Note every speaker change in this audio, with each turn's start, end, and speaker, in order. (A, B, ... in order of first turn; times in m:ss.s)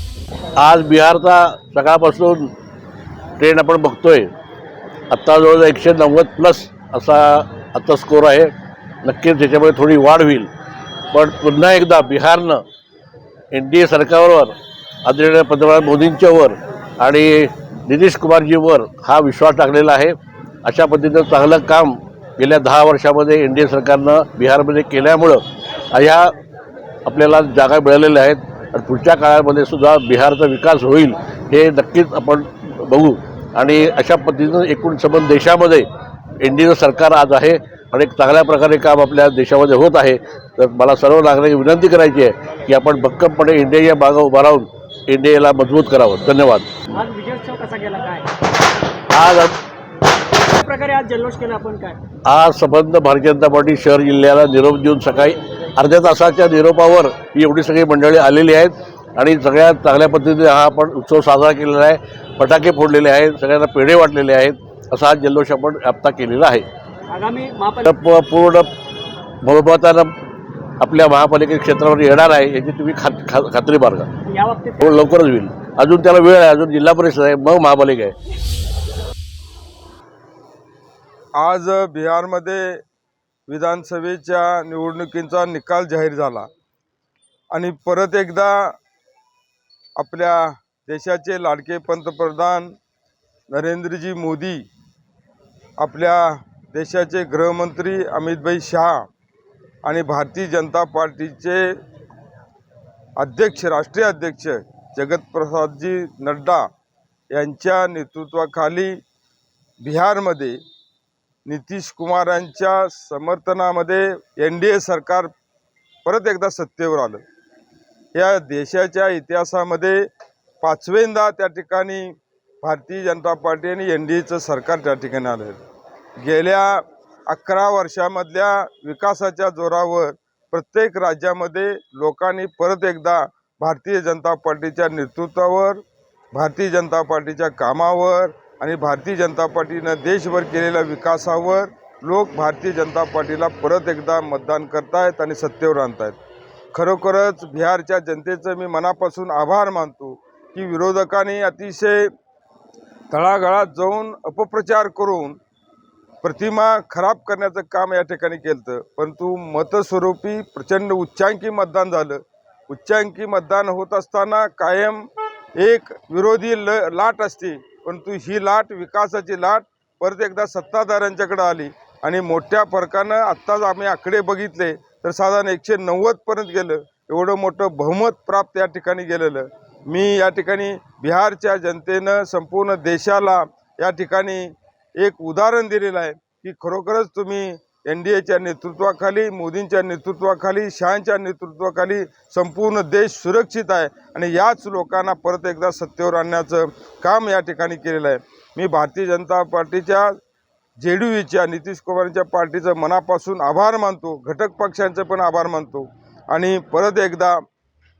0:00.6-0:02.5 A
0:03.4-0:04.3 A
0:05.1-0:08.5 A
0:09.0-0:10.5 A
0:11.1-0:12.6 A
0:13.5-0:14.5 A
0:15.0-0:26.3 A
0:27.1-0:35.9 A
0:36.4-0:46.7 A
0:47.0-0:48.3 B
0:49.1-0:49.6 A
0:50.5-0:52.0 B
0:52.3-1:06.6 A
1:07.1-1:07.9 B
1:07.9-1:08.7 A
1:09.4-1:10.1 A
1:10.8-1:14.1 A
1:14.3-1:14.8 B
1:14.8-1:18.1 A
1:21.4-1:22.8 C
1:23.5-1:26.5 C
1:27.5-1:28.8 C
1:30.0-1:32.7 C
1:33.5-1:34.6 C
1:35.8-1:39.1 C
1:39.8-1:41.8 C
1:43.2-1:46.7 C
1:47.3-1:49.0 C
1:49.8-1:50.6 C
1:51.5-1:55.3 C
1:56.1-1:57.2 C
1:58.2-2:00.0 C
2:00.6-2:05.6 C
2:06.2-2:15.8 C
2:16.3-2:26.2 C
2:26.7-2:32.1 C
2:33.1-2:35.4 C
2:36.2-2:45.1 C
2:45.6-3:20.2 C
3:20.8-3:27.4 C